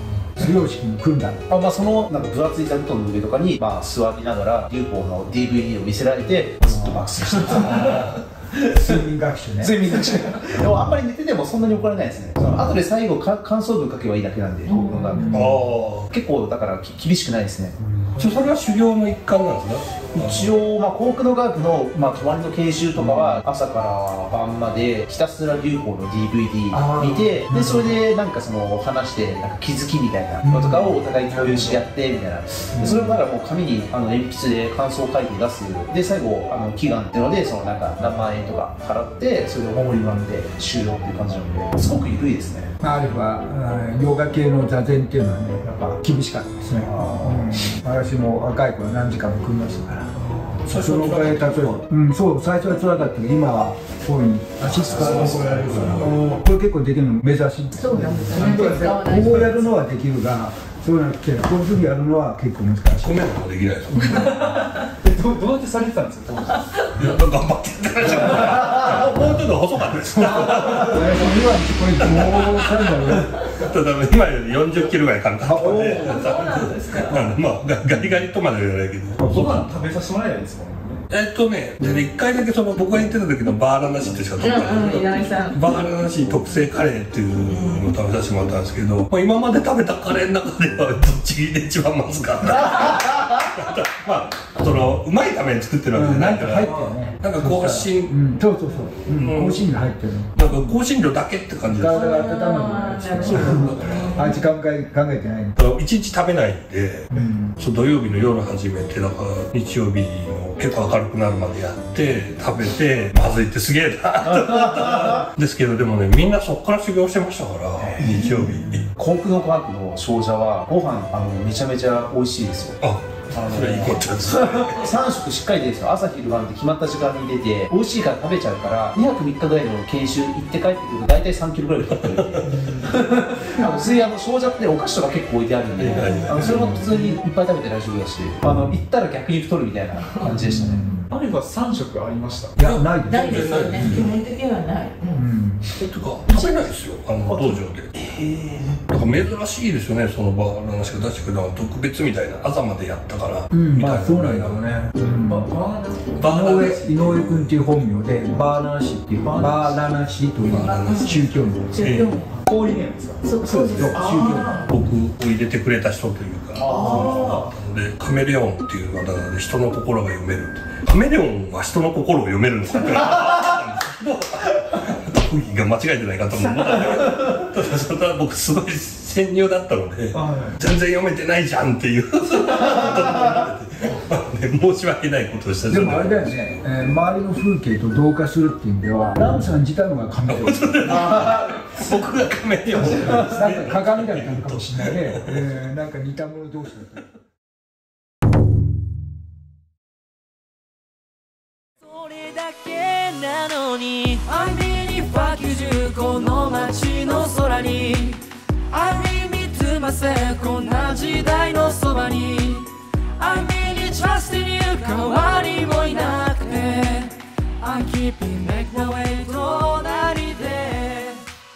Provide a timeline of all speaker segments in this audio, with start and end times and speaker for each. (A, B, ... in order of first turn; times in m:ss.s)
0:00.4-0:01.4 A
0:01.5-0:09.0 B
0:07.6-0:08.2 C
0:08.6-0:09.8 A
0:09.6-0:15.5 B
0:14.7-0:15.4 D
0:15.2-0:15.6 A
0:15.3-0:16.1 C
0:16.1-0:17.8 B
0:18.2-0:20.5 C
0:20.1-0:42.7 B
0:26.7-0:27.9 A
0:30.4-0:31.0 A
0:31.3-0:31.8 E
0:32.7-0:33.1 A
0:42.8-1:03.3 A
0:46.8-0:47.6 B
0:50.2-0:50.6 E
0:50.6-0:51.8 C
0:54.6-0:56.2 C
0:55.0-0:55.4 B
0:55.0-0:56.4 E
0:57.8-0:59.7 D
0:58.1-0:59.3 E
1:02.9-1:04.3 C
1:03.9-1:04.4 A
1:04.0-1:07.1 E
1:06.9-1:11.1 C
1:08.4-1:08.7 E
1:10.2-1:13.3 A
1:10.5-1:11.0 E
1:12.0-1:19.2 C
1:15.4-1:16.2 A
1:15.7-1:16.2 E
1:15.9-1:17.3 D
1:19.2-1:19.6 A
1:19.2-1:21.0 E
1:21.1-1:38.3 C
1:24.4-1:25.6 D
1:27.6-1:27.8 D
1:35.9-1:40.4 A
1:39.0-1:39.7 C
1:40.3-1:42.5 C
1:41.8-1:45.6 A
1:41.9-1:44.4 D
1:43.1-1:44.3 C
1:45.6-1:58.9 C
1:47.1-1:47.6 A
1:54.4-1:55.2 B
1:57.8-1:58.3 B
1:58.9-2:02.8 B
2:02.8-2:04.9 C
2:03.3-2:20.9 B
2:11.9-2:12.6 C
2:12.4-2:13.1 E
2:13.6-2:14.1 D
2:15.8-2:16.8 C
2:15.9-2:16.8 D
2:20.2-2:21.1 A
2:21.1-2:22.6 E
2:22.6-2:24.1 A
2:22.6-2:24.2 C
2:23.1-2:25.2 D
2:25.1-2:25.7 A
2:25.7-2:27.9 C
2:27.3-2:27.6 E
2:28.1-2:28.7 B
2:28.9-2:34.6 C
2:33.5-2:35.5 A
2:35.3-2:36.2 E
2:36.2-2:37.9 C
2:36.2-2:41.8 A
2:39.2-2:39.7 E
2:40.4-2:42.2 C
2:40.6-2:41.2 D
2:41.7-2:42.3 D
2:42.3-2:43.4 E
2:43.2-2:44.3 D
2:43.4-2:44.0 C
2:43.7-2:44.6 A
2:43.9-2:44.7 E
2:44.6-3:06.6 C
2:46.6-2:47.3 B
2:46.6-2:47.5 E
3:00.1-3:00.6 E
3:05.7-3:11.0 A
3:10.3-3:15.3 C
3:10.9-3:11.8 B
3:13.0-3:17.0 A
3:21.8-3:32.7 F
3:33.2-3:41.2 F